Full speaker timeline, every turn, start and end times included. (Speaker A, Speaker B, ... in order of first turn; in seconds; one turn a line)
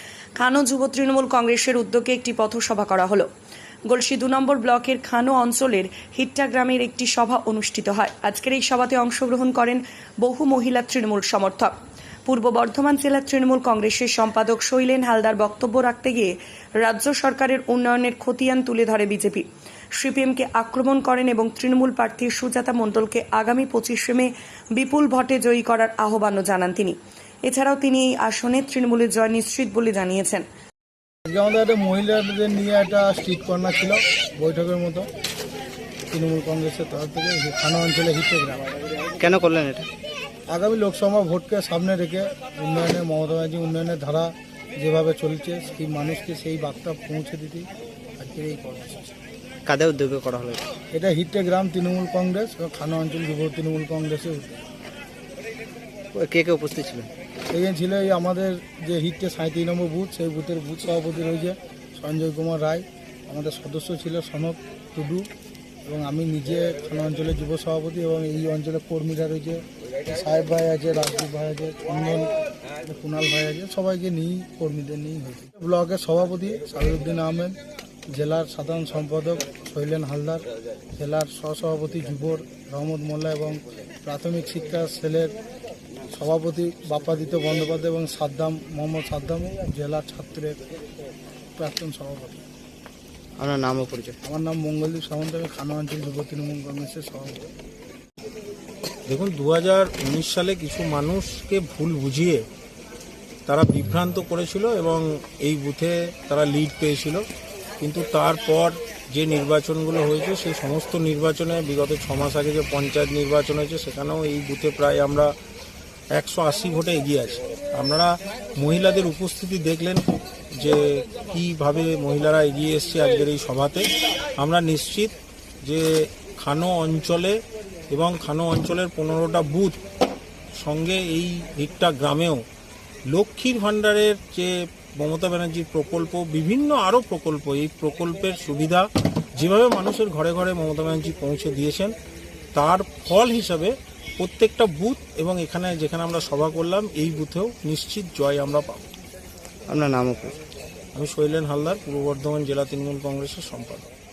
Speaker A: 0.4-3.3
Speaker A: 3.9-11.7
Speaker A: 12.3-30.4
Speaker B: 31.3-35.1
Speaker B: 36.1-38.7
Speaker C: 39.2-39.9
Speaker B: 40.5-49.1
Speaker C: 49.7-50.6
Speaker B: 50.9-54.5
Speaker C: 56.1-57.1
Speaker B: 57.5-65.3
Speaker B: 65.8-72.3
Speaker B: 72.8-77.6
Speaker B: 78.1-80.4
Speaker B: 81.0-85.3
Speaker B: 86.1-90.6
Speaker B: 91.6-92.4
Speaker C: 93.4-94.2
Speaker B: 94.2-97.5
Speaker D: 99.1-102.4
Speaker D: 103.5-107.2
Speaker D: 107.8-115.3
Speaker D: 116.1-120.0
Speaker D: 120.6-127.4
Speaker D: 127.9-129.8
Speaker D: 130.6-132.4
Speaker D: 133.1-141.9
Speaker D: 142.5-148.9
Speaker C: 149.7-150.4
Speaker D: 150.9-153.9